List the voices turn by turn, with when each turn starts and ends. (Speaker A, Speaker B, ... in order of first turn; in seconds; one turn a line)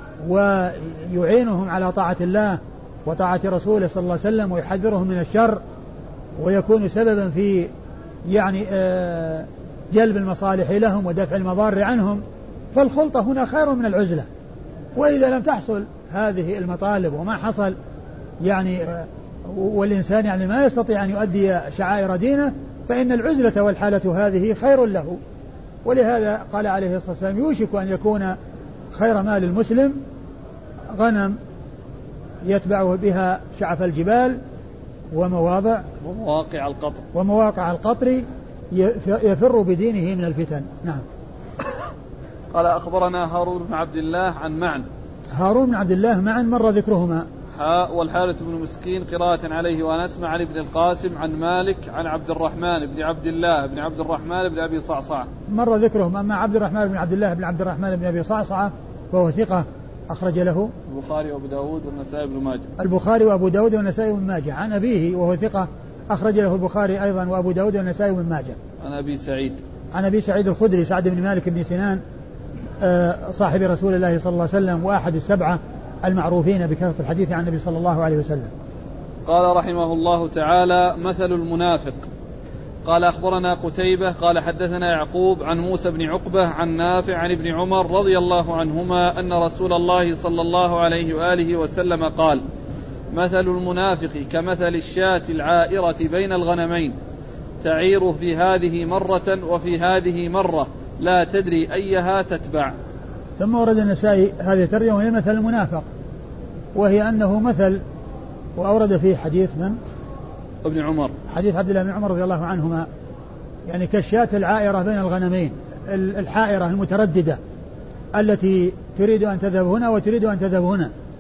Speaker A: 0.2-5.6
Speaker A: 6.4-7.7
Speaker A: 8.3-12.2
Speaker A: 12.7-14.2
Speaker A: 14.9-17.8
Speaker A: 18.4-25.2
Speaker A: 25.8-28.4
Speaker A: 28.9-30.0
Speaker A: 30.9-31.4
Speaker A: 32.4-34.4
Speaker A: 35.1-35.8
Speaker B: 36.0-37.0
Speaker A: 37.1-41.0
Speaker B: 42.5-44.9
Speaker A: 45.3-47.2
Speaker B: 47.5-55.3
Speaker A: 55.5-60.7
Speaker B: 60.9-62.7
Speaker A: 62.8-68.6
Speaker B: 68.8-69.6
Speaker A: 69.9-72.0
Speaker A: 72.8-78.5
Speaker B: 79.2-82.1
Speaker B: 82.8-92.4
Speaker B: 93.1-97.0
Speaker B: 97.6-102.7
Speaker A: 103.4-105.9
Speaker A: 106.7-107.8
Speaker A: 108.5-109.8
Speaker B: 110.6-111.1
Speaker A: 111.3-112.9
Speaker A: 113.7-117.4
Speaker A: 118.1-120.9